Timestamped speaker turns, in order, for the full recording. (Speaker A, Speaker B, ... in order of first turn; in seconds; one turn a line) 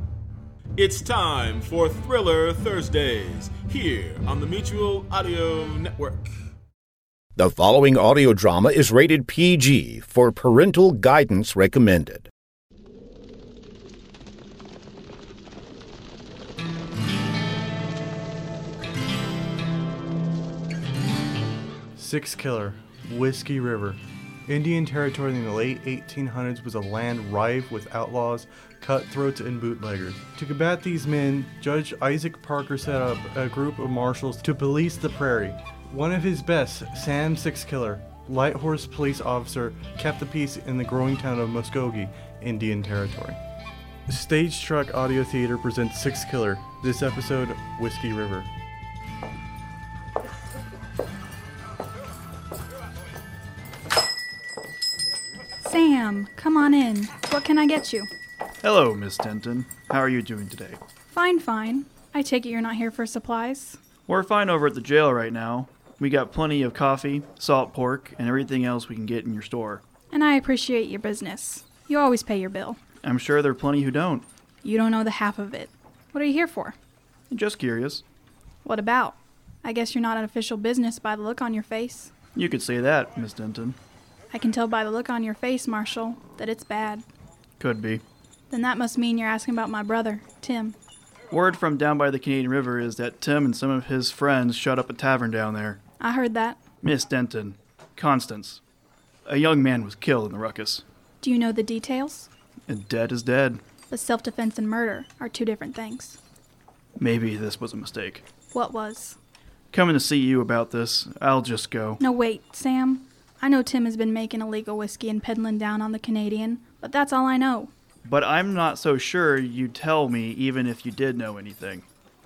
Speaker A: 0.8-6.3
Speaker B: 7.3-12.3
Speaker C: 21.9-43.4
Speaker C: 44.1-48.5
Speaker D: 55.6-58.1
Speaker E: 58.6-60.8
Speaker D: 61.1-63.8
Speaker E: 64.1-69.8
Speaker D: 70.1-72.8
Speaker E: 73.0-74.2
Speaker D: 74.6-76.8
Speaker E: 77.3-78.0
Speaker D: 78.6-82.1
Speaker E: 82.3-83.8
Speaker D: 84.3-87.0
Speaker E: 87.6-88.0
Speaker D: 88.5-90.8
Speaker E: 91.3-95.8
Speaker D: 96.0-96.6
Speaker E: 96.8-98.6
Speaker E: 99.2-100.8
Speaker D: 101.2-102.3
Speaker E: 102.7-103.6
Speaker D: 103.9-106.2
Speaker E: 107.0-108.2
Speaker D: 108.5-109.2
Speaker E: 109.7-112.0
Speaker D: 112.0-117.7
Speaker E: 118.0-121.8